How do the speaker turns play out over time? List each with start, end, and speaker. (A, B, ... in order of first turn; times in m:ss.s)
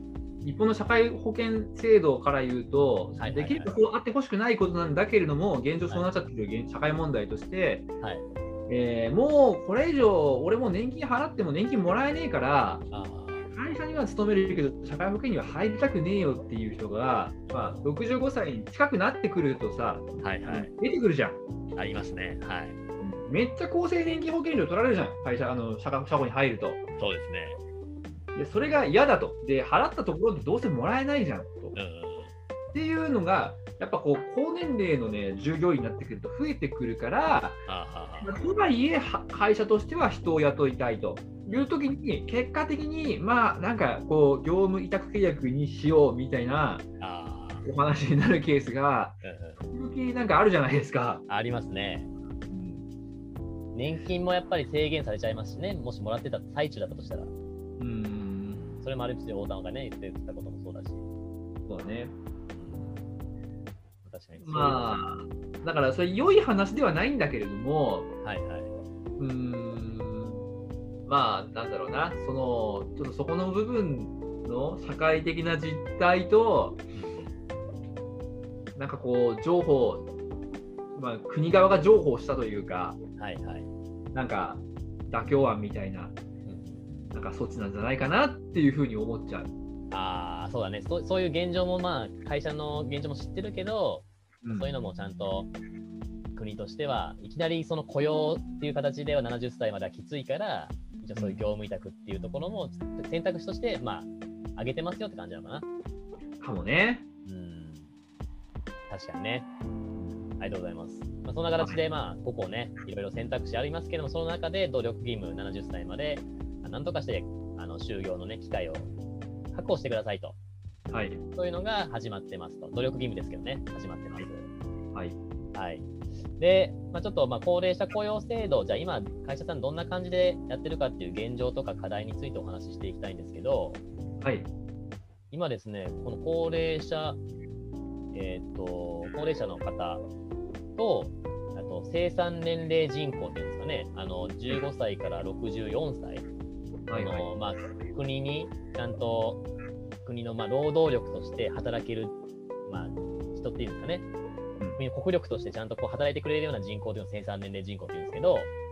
0:00.4-0:07.9 A
0:03.2-0:03.7 B
0:08.7-0:12.8 A
0:12.9-0:13.5 B
0:13.5-0:21.4 A
0:20.2-0:20.7 B
0:21.8-0:22.8 B
0:23.0-0:26.8 A
0:27.0-0:27.6 B
0:28.3-0:31.7 A
0:31.7-0:32.3 B
0:32.7-0:37.6 A
0:37.6-0:38.3 B
0:38.2-0:46.8 A
0:41.5-0:41.7 B
0:47.0-0:47.6 B
0:47.6-0:49.2 A
0:49.2-0:49.6 B
0:49.7-0:51.2 A
0:51.3-0:52.1 B
0:52.5-0:52.8 A
0:53.7-0:57.3 B
0:57.8-0:58.6 A
0:58.5-1:01.0 B
1:01.6-1:02.2 A
1:02.5-1:03.0 B
1:04.0-1:05.0 B
1:04.4-1:08.1 A
1:08.2-1:08.7 B
1:09.2-1:10.4 A
1:11.1-1:16.8 A
1:16.9-1:17.3 B
1:18.7-1:20.1 A
1:20.9-1:23.0 A
1:23.2-1:23.7 B
1:24.1-1:26.1 A
1:26.4-1:26.8 B
1:27.1-1:29.5 A
1:29.9-1:35.5 B
1:34.4-1:34.7 A
1:36.3-1:45.6 B
1:41.2-1:41.4 A
1:46.4-1:47.0 A
1:47.2-1:47.9 B
1:48.9-1:49.5 B
1:50.0-1:50.2 A
1:50.4-1:58.9 B
1:59.5-2:00.4 B
2:00.9-2:01.2 A
2:01.3-2:04.5 B
2:05.5-2:13.8 B
2:14.2-2:14.5 A
2:15.3-2:17.2 B
2:18.1-2:20.0 B
2:20.8-2:26.2 B
2:26.9-2:27.2 A
2:26.9-2:29.4 B
2:30.0-2:32.1 B
2:32.7-2:34.0 B
2:34.8-2:38.5 B